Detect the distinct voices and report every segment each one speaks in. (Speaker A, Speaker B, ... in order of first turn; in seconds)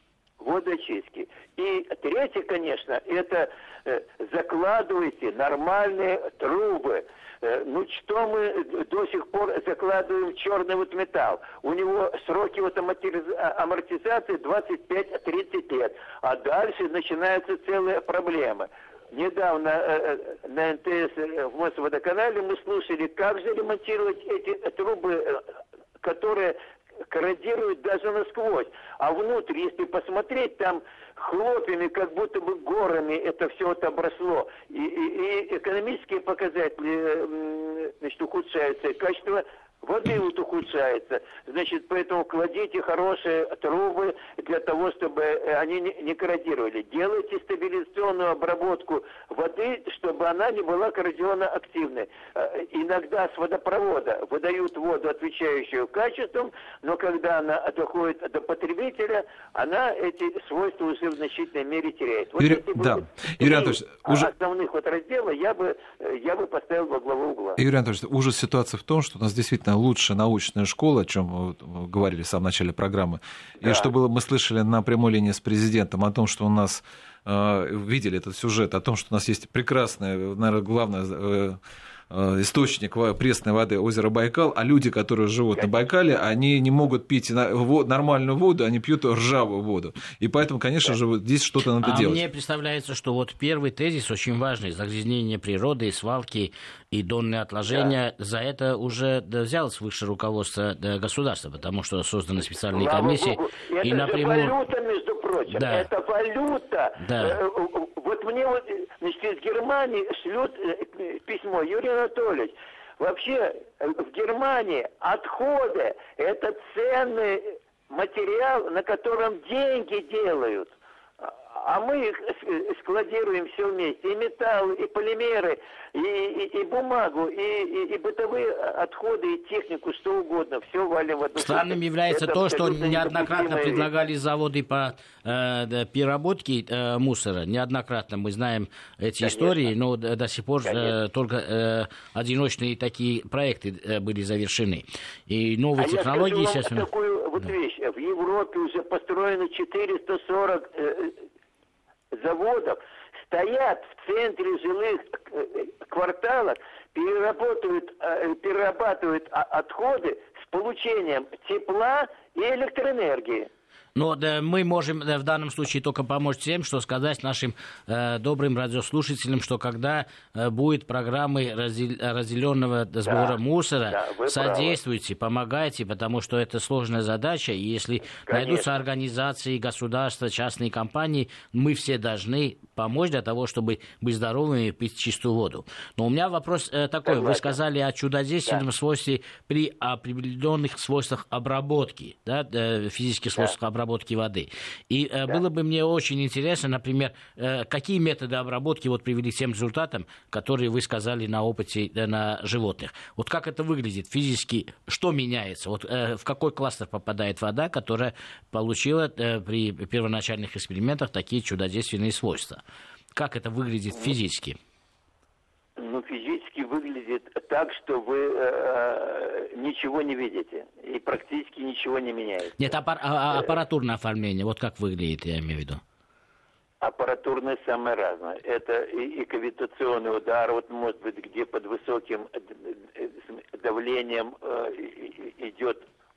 Speaker A: 0.4-25.4, 26.0-26.6, 27.1-67.6, 73.6-73.9, 97.7-97.9, 102.7-133.9, 139.2-139.7, 140.7-141.0, 145.8-151.2, 152.1-163.5, 173.1-173.4, 173.9-174.8, 178.2-178.8, 187.1-187.6, 215.8-222.7, 226.8-235.8
Speaker B: 62.4-64.3, 67.6-81.6, 82.1-92.2
Speaker C: 91.8-104.5, 105.5-105.9, 107.0-107.4, 131.4-146.9, 163.9-212.6, 213.1-214.6, 222.6-225.8